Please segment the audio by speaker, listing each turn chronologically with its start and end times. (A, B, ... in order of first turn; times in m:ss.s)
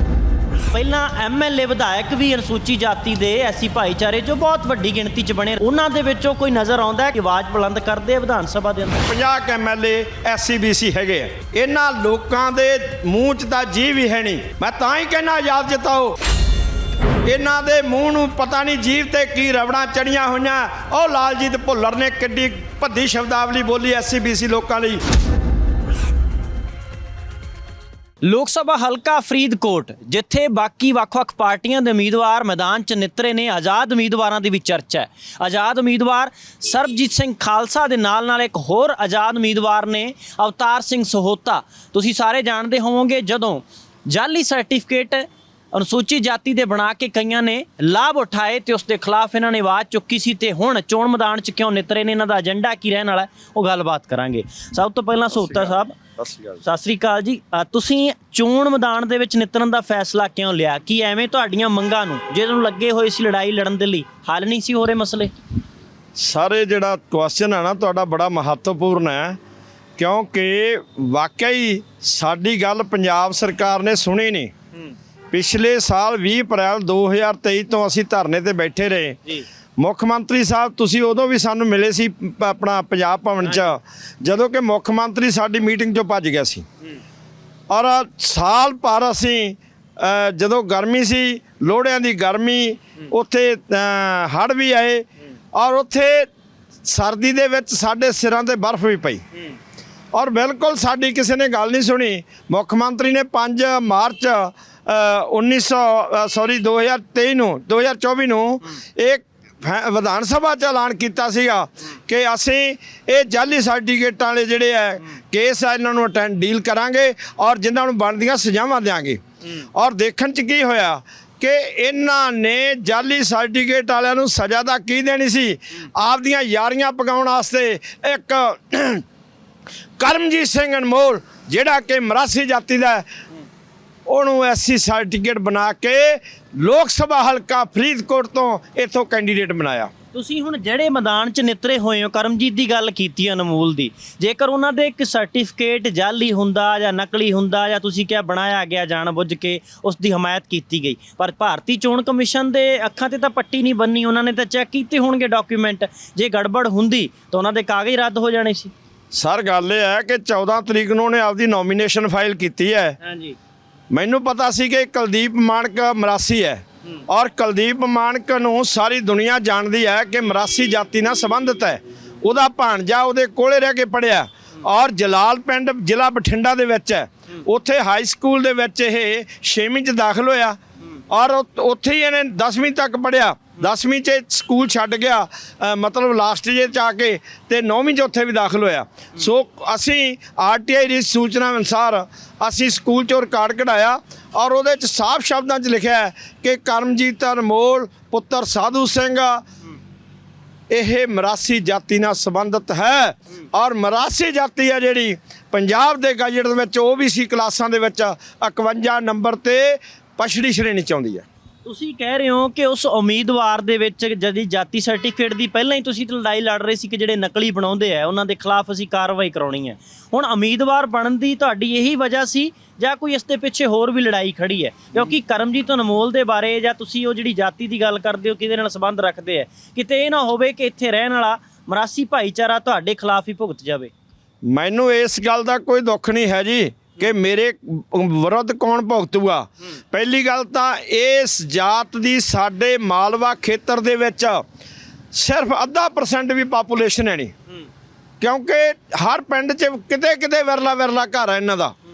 0:00.7-0:09.0 A
0:09.0-0:16.2 B
0:17.2-0:25.0 B
0:28.2-0:56.0 A
0:55.3-0:56.6 B
0:56.6-1:05.3 A
1:06.2-1:09.4 B
1:10.0-1:14.5 B
1:15.3-1:26.6 B
1:27.7-1:36.3 B
1:36.8-1:39.2 B
1:40.1-1:59.2 B
1:59.7-2:09.0 B
2:10.0-2:13.1 B
2:14.1-2:19.9 B
2:20.1-2:38.7 A
2:39.1-2:43.0 B
2:43.0-2:43.4 A
2:43.9-3:00.6 B
3:01.1-3:19.4 B
3:20.7-3:31.2 B
3:31.6-3:53.9 A
3:54.5-4:04.4 B
4:05.1-4:07.3 B
4:08.2-4:11.7 B